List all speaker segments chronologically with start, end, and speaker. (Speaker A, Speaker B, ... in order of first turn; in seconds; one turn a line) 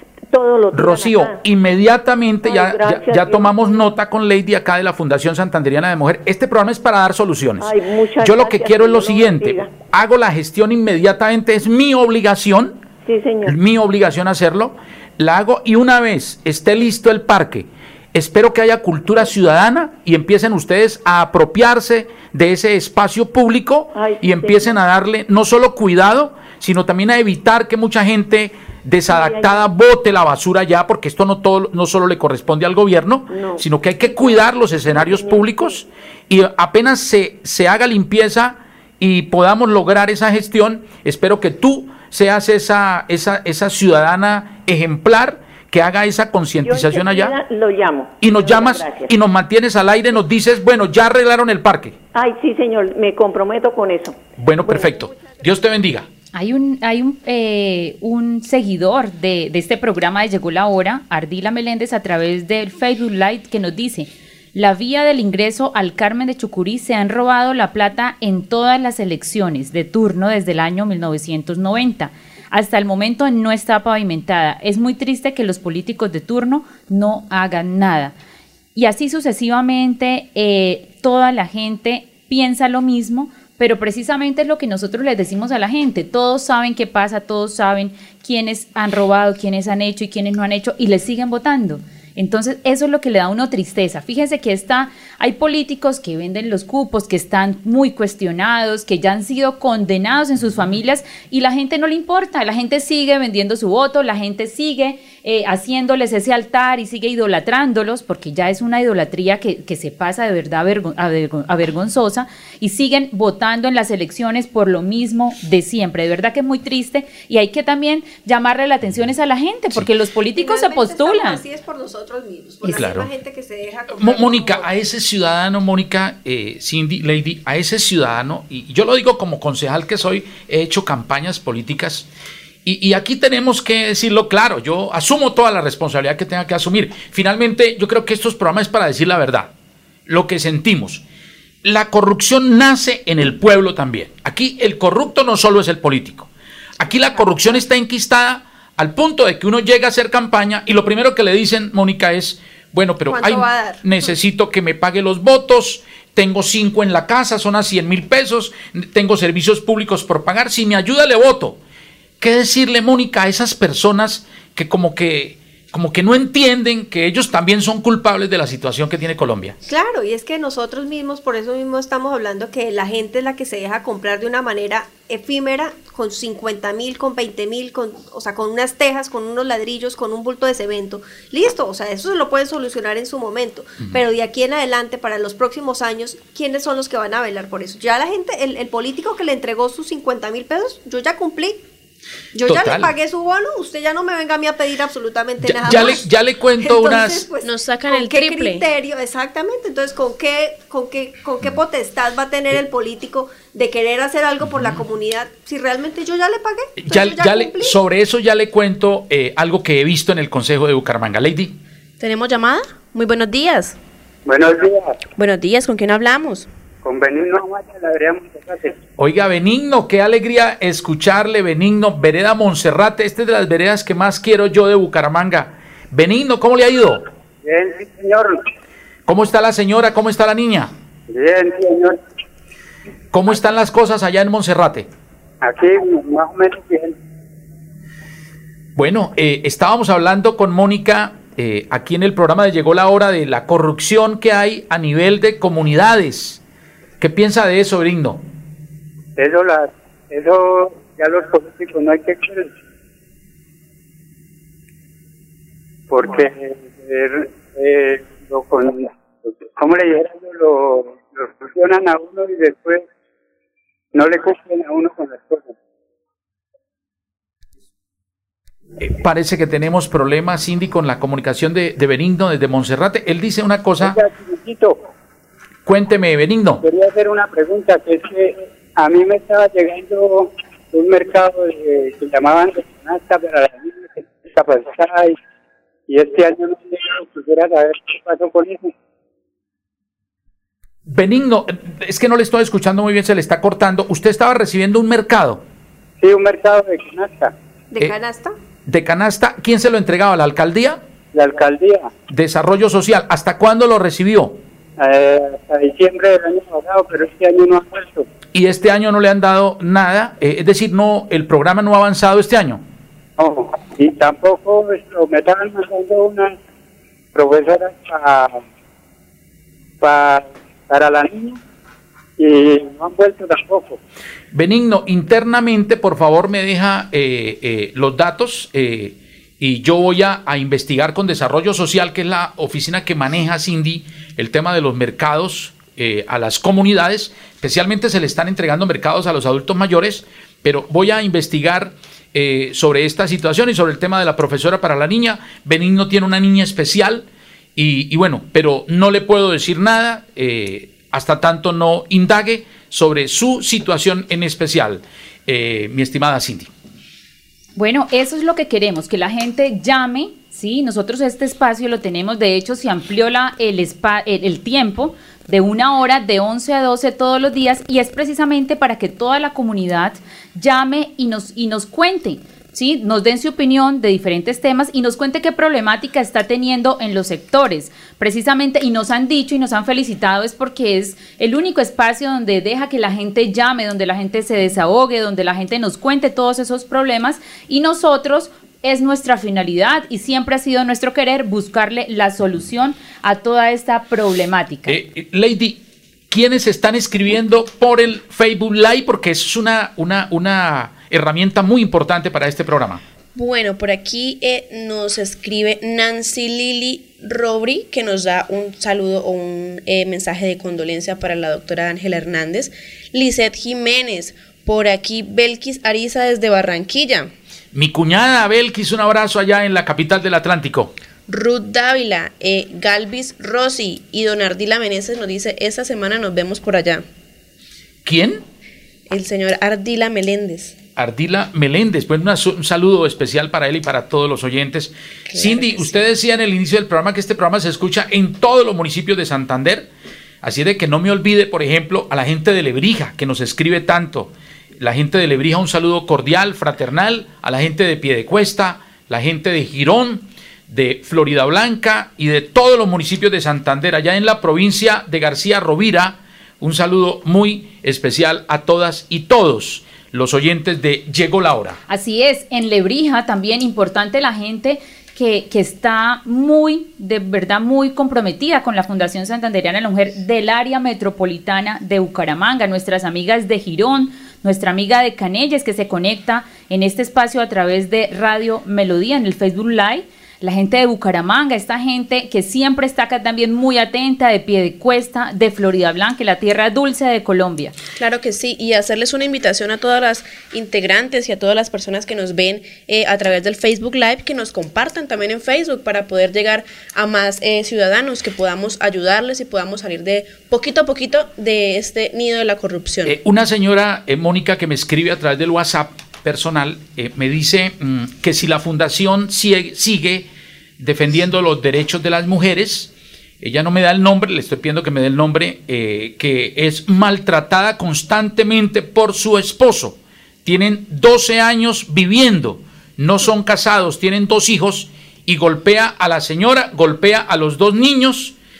Speaker A: 0.3-1.4
Speaker B: 0.7-12.8
Speaker A: 2.4-3.8
Speaker A: 7.6-9.7
Speaker A: 13.0-13.5
Speaker B: 13.4-47.4
Speaker A: 23.9-24.8
Speaker A: 29.1-29.6
Speaker A: 33.3-35.8
Speaker A: 46.6-49.1
Speaker B: 48.2-51.9
Speaker A: 52.1-55.2
Speaker B: 54.4-56.1
Speaker C: 56.3-78.1
Speaker C: 78.7-121.4
Speaker D: 120.3-124.7
Speaker B: 122.6-123.1
Speaker B: 123.9-132.1
Speaker B: 132.6-139.5
Speaker B: 140.1-141.0
Speaker B: 141.6-161.6
Speaker D: 153.1-154.1
Speaker B: 162.2-169.6
Speaker D: 169.6-191.6
Speaker D: 192.3-196.1
Speaker B: 192.5-192.9
Speaker B: 195.4-197.2
Speaker D: 196.6-207.8
Speaker E: 197.4-198.6
Speaker B: 204.5-204.8
Speaker B: 206.8-211.6
Speaker E: 212.0-213.8
Speaker F: 214.2-215.0
Speaker E: 215.2-216.5
Speaker F: 216.8-218.8
Speaker B: 219.0-227.0
Speaker F: 227.4-228.4
Speaker B: 229.1-230.7
Speaker F: 231.1-232.0
Speaker B: 233.1-234.9
Speaker F: 235.4-236.9
Speaker B: 238.8-246.4
Speaker B: 247.0-248.2
Speaker F: 249.2-252.5
Speaker F: 255.9-262.9
Speaker F: 263.9-265.5
Speaker B: 268.8-273.9
Speaker F: 273.8-274.8
Speaker B: 275.6-276.6
Speaker F: 276.6-285.2
Speaker F: 285.9-288.7
Speaker B: 290.9-295.4
Speaker F: 296.0-297.3
Speaker D: 297.7-298.3
Speaker B: 298.6-300.8
Speaker F: 301.1-301.9
Speaker B: 302.1-304.4
Speaker F: 304.8-308.1
Speaker B: 308.3-312.6
Speaker F: 313.2-316.4
Speaker F: 317.1-318.4
Speaker F: 319.8-321.4
Speaker F: 322.2-323.8
Speaker B: 324.3-356.5
Speaker C: 357.6-394.8
Speaker B: 394.7-402.8
Speaker E: 403.1-417.1
Speaker B: 417.5-420.7
Speaker E: 421.1-426.8
Speaker B: 427.8-428.2
Speaker E: 428.9-430.6
Speaker B: 430.8-439.7
Speaker E: 435.1-435.6
Speaker B: 440.2-461.6
Speaker C: 461.7-487.5
Speaker E: 487.8-502.9
Speaker B: 502.8-512.7
Speaker B: 513.2-528.1